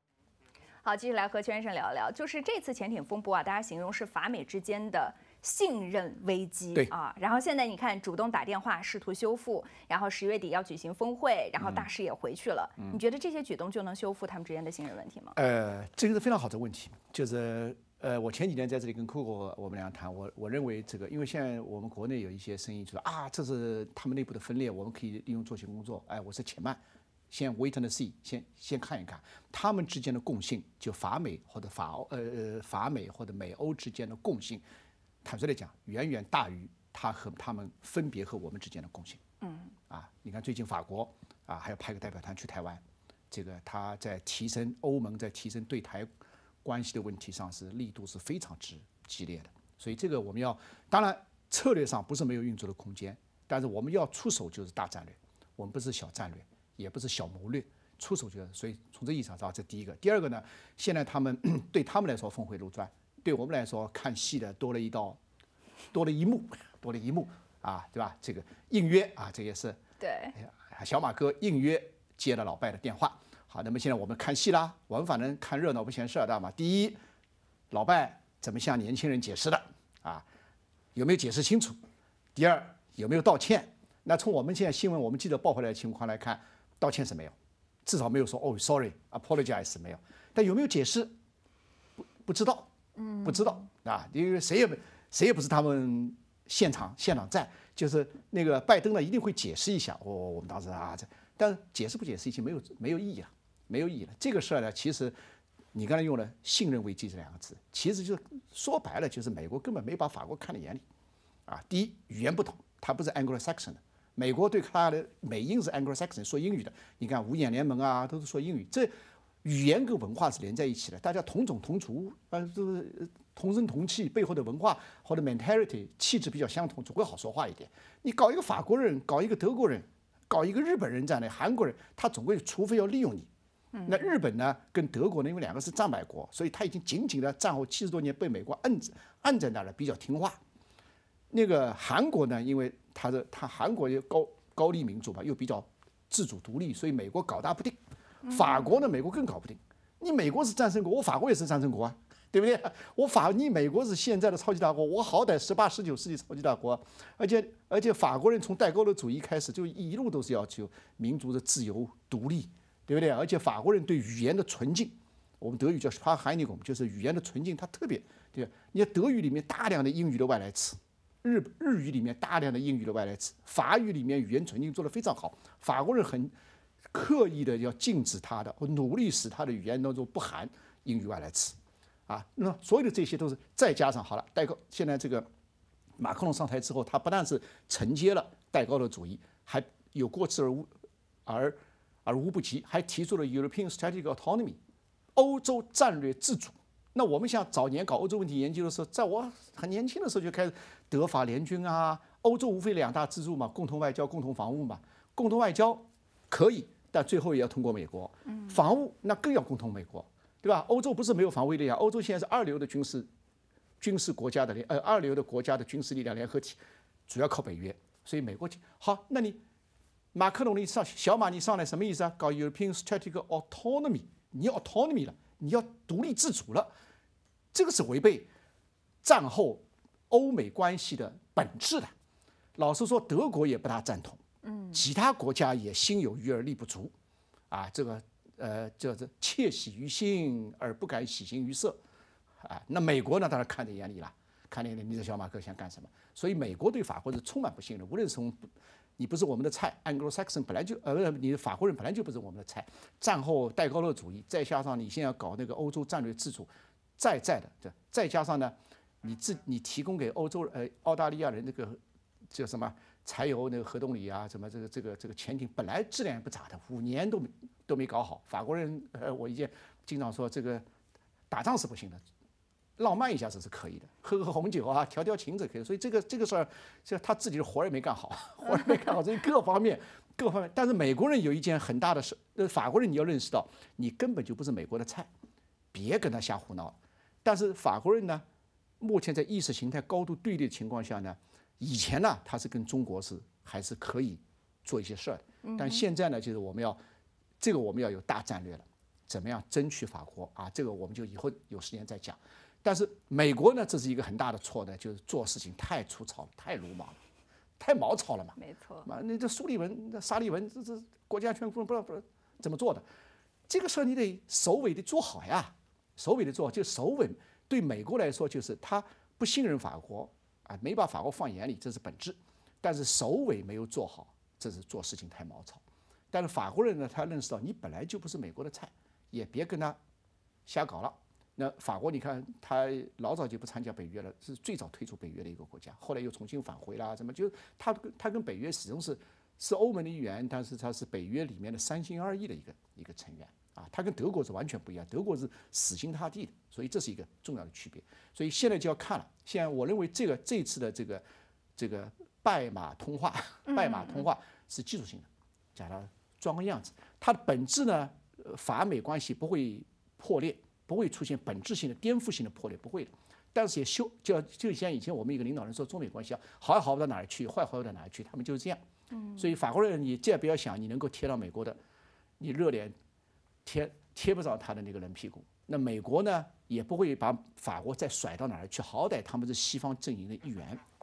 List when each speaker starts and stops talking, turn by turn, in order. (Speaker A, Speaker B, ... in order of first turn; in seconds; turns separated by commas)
Speaker A: 0.8-15.4, Speaker B: 11.6-11.9, Speaker B: 15.3-34.6, Speaker B: 35.2-39.2, Speaker A: 39.4-39.7, Speaker B: 39.9-46.1, Speaker B: 46.6-65.2, Speaker B: 65.9-69.8, Speaker A: 70.0-70.3, Speaker B: 70.3-77.0, Speaker B: 77.7-80.3, Speaker B: 81.0-81.8, Speaker B: 82.3-91.1, Speaker B: 92.0-92.7, Speaker B: 93.2-105.2, Speaker B: 105.7-110.8, Speaker B: 111.5-118.9, Speaker B: 119.4-133.3, Speaker B: 133.9-140.4, Speaker B: 141.3-176.3, Speaker B: 176.9-181.6, Speaker B: 182.1-185.3, Speaker B: 186.0-190.7, Speaker B: 191.3-194.6, Speaker B: 195.2-213.1, Speaker B: 213.8-219.4, Speaker B: 220.1-226.7, Speaker B: 227.5-228.3, Speaker B: 229.0-231.9, Speaker B: 232.6-236.9, Speaker A: 234.5-234.8, Speaker B: 237.5-241.8, Speaker B: 242.4-270.7, Speaker B: 271.3-272.0, Speaker B: 272.8-285.1, Speaker B: 285.7-288.2, Speaker B: 288.8-296.8, Speaker A: 295.4-295.8, Speaker B: 297.4-307.0, Speaker B: 307.6-312.9, Speaker A: 308.4-308.9, Speaker B: 313.5-329.8, Speaker B: 330.5-351.0, Speaker B: 351.6-368.6, Speaker A: 353.5-354.0, Speaker A: 368.9-369.3, Speaker B: 369.2-371.6, Speaker B: 372.2-372.8, Speaker B: 373.4-380.6